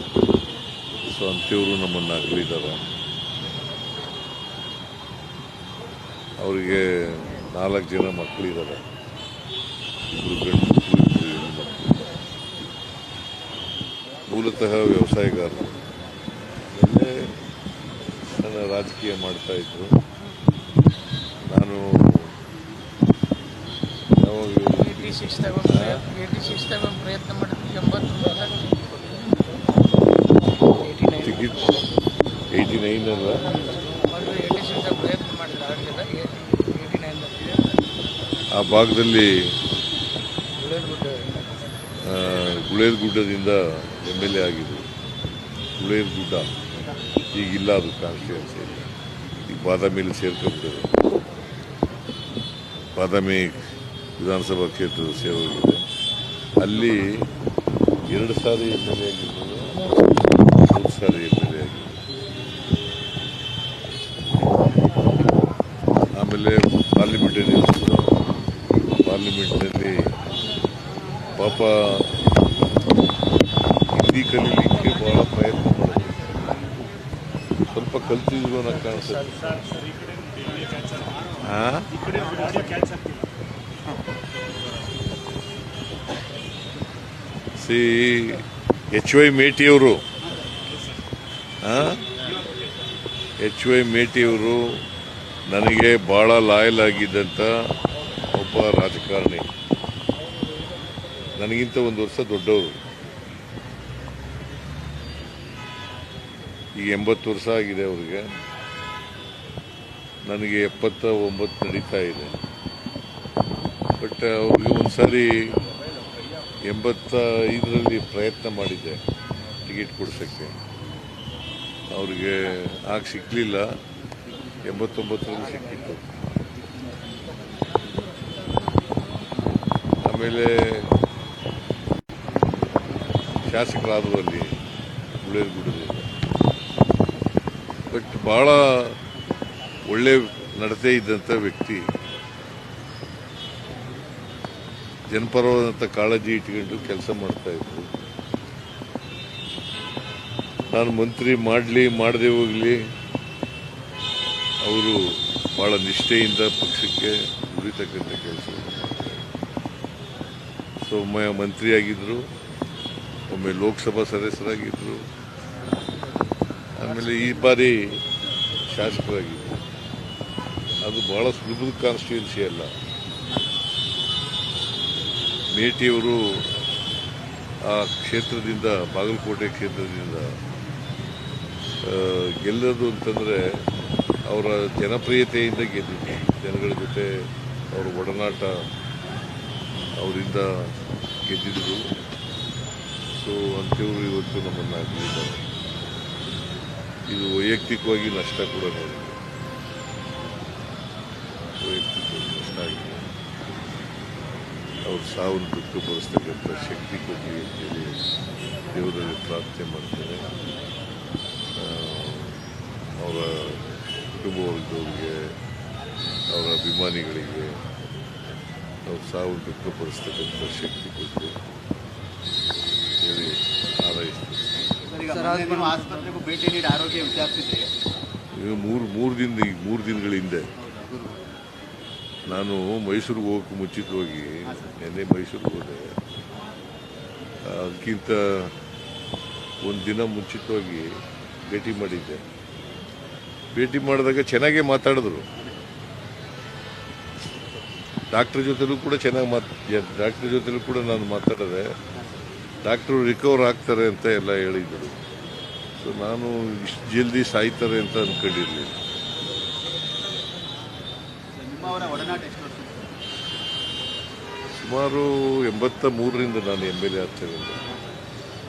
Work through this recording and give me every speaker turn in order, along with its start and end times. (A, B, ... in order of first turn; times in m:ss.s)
0:01.1-0:02.8 A
0:06.4-0:08.8 A
0:10.1-0:11.9 A
0:14.3-0:15.8 A
0:16.7-0:17.1 A
0:18.3-0:19.9 A
0:21.5-0:22.3 A
0:24.2-0:26.1 A
0:25.0-0:28.8 B
0:30.7-0:31.3 B
0:31.2-0:31.7 A
0:32.5-0:33.5 A
0:34.0-0:37.6 B
0:38.5-0:39.5 A
0:40.6-0:41.3 B
0:42.0-0:44.9 A
0:45.8-0:46.5 A
0:47.3-0:48.9 A
0:49.4-0:51.0 A
0:53.0-0:53.6 A
0:54.2-0:55.8 A
0:56.6-0:57.3 A
0:58.1-1:00.0 A
1:00.6-1:02.0 A
1:06.2-1:08.1 A
1:09.0-1:10.0 A
1:11.4-1:12.1 A
1:13.9-1:16.2 A
1:17.7-1:19.5 A
1:19.3-1:21.0 B
1:21.4-1:22.1 A
1:22.1-1:22.9 C
1:27.6-1:30.0 A
1:31.6-1:32.0 A
1:33.4-1:34.8 A
1:35.5-1:37.5 A
1:38.3-1:39.5 A
1:41.4-1:42.8 A
1:46.8-1:48.3 A
1:50.3-1:52.4 A
1:54.0-1:55.5 A
1:56.7-1:59.0 A
1:59.6-2:00.6 A
2:01.9-2:03.7 A
2:04.6-2:06.0 A
2:10.1-2:10.9 A
2:13.5-2:14.6 A
2:15.2-2:16.1 A
2:17.9-2:19.0 A
2:19.9-2:21.8 A
2:25.1-2:27.9 A
2:30.7-2:32.8 A
2:34.6-2:39.2 A
2:40.8-2:42.3 A
2:43.3-2:45.1 A
2:46.8-2:48.0 A
2:48.7-2:49.6 A
2:50.8-2:52.7 A
2:55.5-2:56.5 A
2:57.6-3:00.4 A
3:01.8-3:03.6 A
3:04.3-3:07.1 A
3:07.7-3:08.5 A
3:10.0-3:10.7 A
3:11.3-3:11.9 A
3:13.2-3:15.4 A
3:17.1-3:19.2 A
3:21.6-3:23.1 A
3:24.9-3:28.0 A
3:28.7-3:30.3 A
3:31.6-3:35.2 A
3:36.3-3:37.6 A
3:38.9-3:41.4 A
3:43.0-3:44.4 A
3:45.0-3:47.7 C
3:48.4-3:50.5 A
3:50.9-3:51.1 C
3:52.3-3:55.9 A
3:57.4-3:58.5 A
3:59.6-4:00.9 A
4:01.5-4:02.2 A
4:03.6-4:05.3 A
4:08.1-4:11.7 A
4:12.6-4:15.0 A
4:15.8-4:18.8 A
4:21.5-4:22.8 C
4:24.6-4:27.6 A